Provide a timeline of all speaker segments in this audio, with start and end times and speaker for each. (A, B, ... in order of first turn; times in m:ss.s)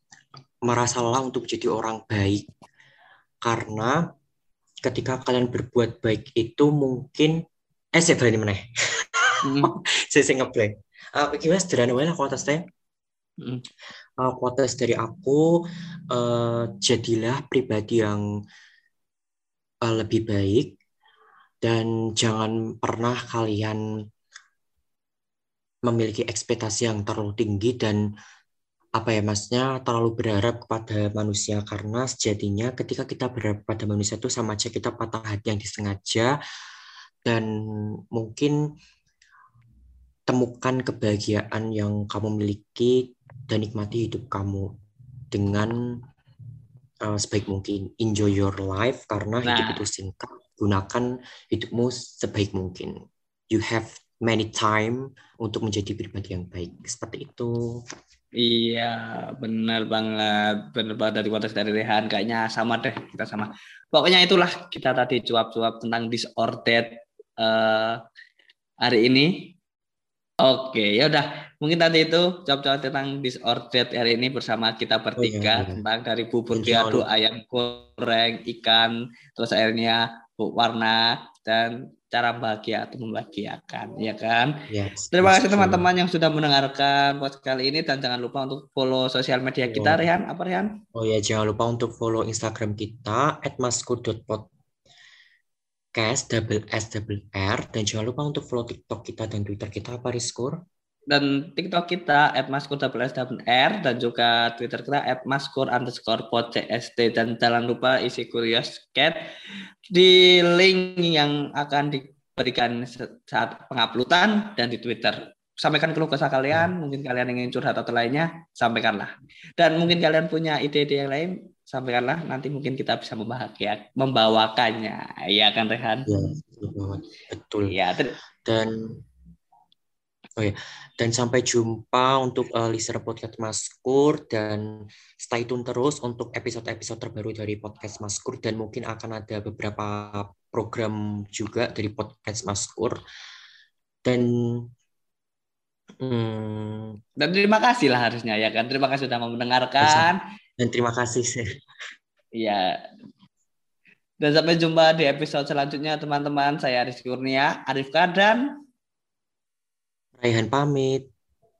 0:00.6-0:02.4 A
0:03.4-0:04.0 A
0:04.8-0:07.4 A
0:08.0-0:12.6 A
0:09.4-0:09.7 B
0:14.2-0:18.2 A
0:19.8-0:20.7 A
0:21.6-0:23.8 A
0:25.8-0:28.0 A
0:29.0-0:36.3 A
0:38.1-0:38.6 A
0:40.3-0:44.7 A
0:45.3-0:45.8 A
0:47.0-0:53.0 A
0:49.4-0:49.8 B
0:53.5-0:57.6 A
0:58.4-1:08.0 B
1:08.8-1:09.3 B
1:10.4-1:24.5 B
1:15.2-1:15.8 A
1:16.5-1:17.0 A
1:24.7-1:25.8 A
1:25.1-1:30.7 B
1:29.7-1:30.0 A
1:30.9-1:34.5 A
1:36.0-1:40.6 A
1:41.1-1:49.2 B
1:49.9-2:06.1 B
2:06.1-2:07.8 A
2:07.6-2:08.2 B
2:08.4-2:09.0 A
2:10.4-2:23.0 A
2:24.0-2:24.7 A
2:26.0-2:27.0 A
2:27.2-2:30.2 B
2:29.8-2:31.5 A
2:32.3-2:32.8 B
2:34.2-2:38.4 B
2:40.2-2:41.1 A